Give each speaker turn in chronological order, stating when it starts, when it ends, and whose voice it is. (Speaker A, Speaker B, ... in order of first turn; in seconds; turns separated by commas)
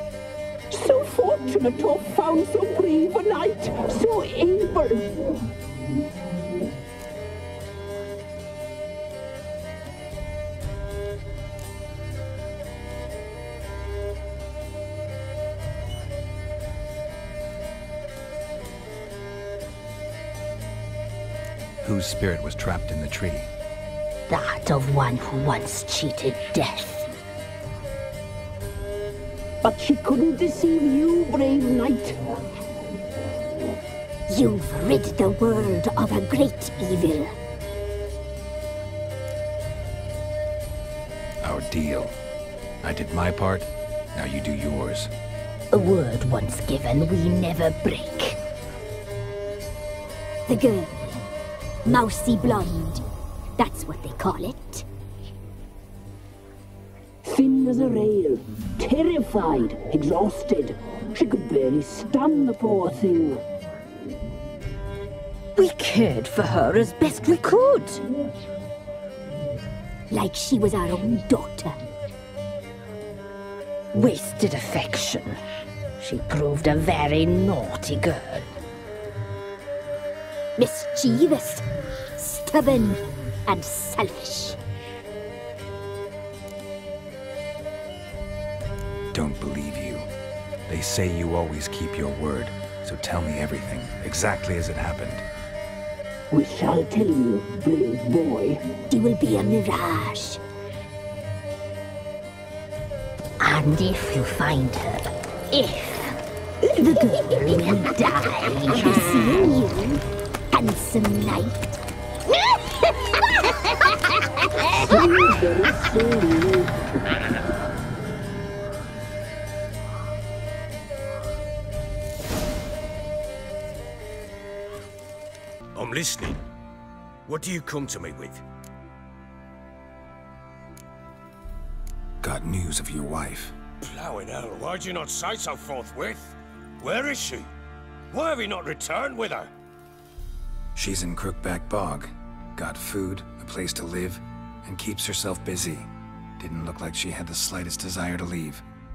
Speaker A: 0.7-5.2, Speaker B: 21.8-23.5, Speaker C: 24.3-27.1, Speaker A: 29.6-32.2, Speaker C: 34.3-37.3, Speaker B: 41.4-42.1, Speaker B: 42.8-45.1, Speaker C: 45.7-48.4, Speaker C: 50.5-50.9, Speaker C: 51.9-53.0, Speaker C: 53.6-54.9, Speaker A: 57.2-63.4, Speaker C: 65.6-68.0, Speaker C: 70.1-71.8, Speaker C: 73.9-75.4, Speaker C: 76.0-78.5, Speaker C: 80.6-81.6, Speaker C: 82.2-84.6, Speaker B: 89.1-90.1, Speaker B: 90.7-95.2, Speaker A: 96.3-98.8, Speaker C: 98.9-100.4, Speaker C: 103.4-106.2, Speaker C: 106.8-110.0, Speaker A: 107.1-107.4, Speaker C: 110.5-111.7, Speaker A: 114.9-116.8, Speaker D: 125.8-126.4, Speaker D: 127.3-128.4, Speaker B: 132.2-133.6, Speaker D: 133.8-137.5, Speaker D: 138.1-139.5, Speaker B: 140.8-148.6